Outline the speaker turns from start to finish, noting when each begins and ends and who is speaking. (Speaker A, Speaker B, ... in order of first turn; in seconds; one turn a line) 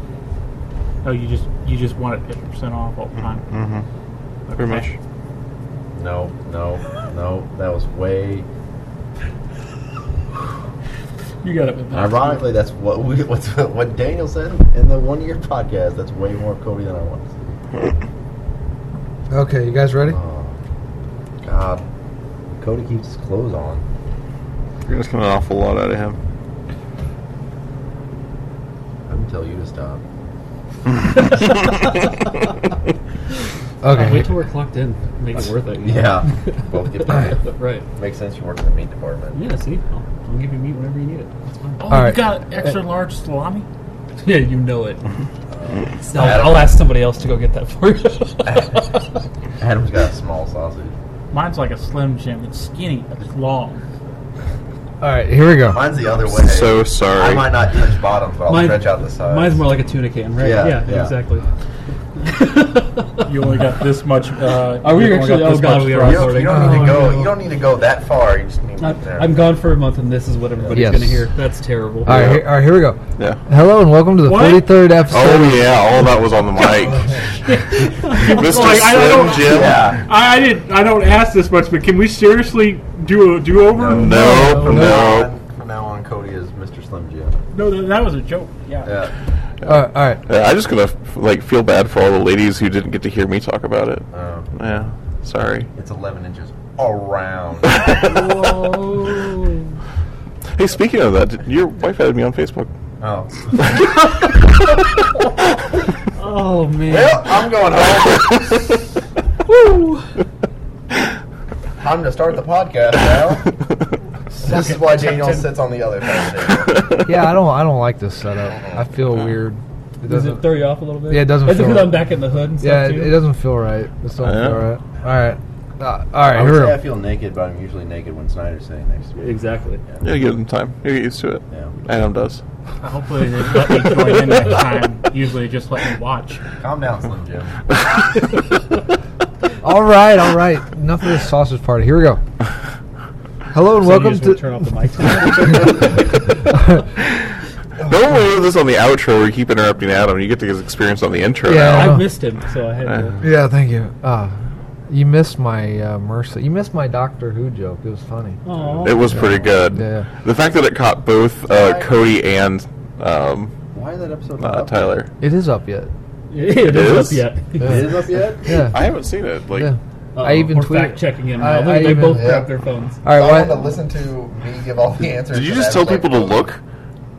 Speaker A: 1.0-3.4
Speaker B: 3.4-3.9
Speaker A: 4.5-4.9
Speaker B: 4.5-5.0
Speaker C: 6.0-8.5
Speaker D: 11.4-12.4
Speaker C: 11.9-17.3
Speaker E: 19.3-20.2
Speaker C: 20.0-20.6
Speaker C: 21.4-21.8
Speaker C: 22.5-23.8
Speaker B: 24.9-26.2
Speaker C: 29.1-30.0
Speaker B: 31.2-31.8
Speaker D: 31.3-32.0
Speaker E: 33.8-34.3
Speaker D: 33.9-37.9
Speaker C: 35.8-39.4
Speaker D: 39.3-41.9
Speaker A: 41.8-43.6
Speaker E: 41.9-42.4
Speaker D: 44.2-45.0
Speaker C: 45.6-46.8
Speaker D: 46.0-49.1
Speaker C: 48.4-48.8
Speaker C: 49.6-50.9
Speaker A: 51.3-53.9
Speaker E: 55.0-55.9
Speaker C: 55.7-59.6
Speaker B: 56.3-57.6
Speaker D: 58.5-61.5
Speaker C: 60.4-61.1
Speaker D: 62.1-63.5
Speaker A: 63.2-66.5
Speaker D: 64.8-67.3
Speaker C: 66.0-69.4
Speaker E: 66.5-67.2
Speaker D: 68.8-72.4
Speaker E: 70.7-71.3
Speaker E: 72.0-75.9
Speaker B: 72.0-72.5
Speaker B: 73.2-73.4
Speaker A: 74.2-74.8
Speaker B: 75.1-77.2
Speaker A: 77.5-84.6
Speaker D: 77.6-78.5
Speaker B: 78.1-79.8
Speaker C: 79.4-80.0
Speaker C: 83.8-87.4
Speaker B: 83.8-85.3
Speaker D: 84.1-85.0
Speaker A: 87.5-88.9
Speaker C: 88.8-89.1
Speaker B: 89.6-95.7
Speaker E: 89.7-90.2
Speaker C: 94.1-94.8
Speaker C: 95.7-98.1
Speaker B: 97.8-98.1
Speaker D: 97.9-99.8
Speaker B: 100.5-102.7
Speaker C: 103.0-103.8
Speaker D: 106.0-107.3
Speaker C: 106.9-108.7
Speaker D: 109.5-110.1
Speaker C: 111.8-113.5
Speaker C: 114.3-116.9
Speaker D: 114.4-115.5
Speaker B: 116.7-117.1
Speaker E: 117.0-120.5
Speaker D: 120.0-123.2
Speaker E: 121.1-122.1
Speaker E: 122.6-126.8
Speaker B: 124.2-124.7
Speaker C: 126.2-129.2
Speaker D: 129.2-129.8
Speaker B: 130.0-132.4
Speaker A: 132.8-136.4
Speaker D: 133.6-134.4
Speaker C: 136.6-137.6
Speaker E: 139.6-142.2
Speaker E: 143.5-144.4
Speaker D: 143.8-146.2
Speaker E: 145.2-146.8
Speaker B: 147.8-152.0
Speaker E: 151.4-152.0
Speaker D: 151.7-153.2
Speaker E: 153.2-154.3
Speaker E: 154.9-158.4
Speaker D: 158.4-159.2
Speaker C: 158.5-159.1
Speaker B: 158.8-163.5
Speaker E: 159.1-160.1
Speaker C: 161.5-161.9
Speaker C: 163.7-165.0
Speaker B: 164.4-165.1
Speaker E: 165.2-165.9
Speaker D: 166.3-168.0
Speaker B: 166.6-167.3
Speaker C: 167.6-168.6
Speaker E: 167.6-168.8
Speaker B: 168.5-169.7
Speaker E: 169.5-172.5
Speaker D: 170.1-173.0
Speaker C: 171.8-172.5
Speaker E: 173.0-173.7
Speaker C: 173.0-176.5
Speaker B: 175.3-176.6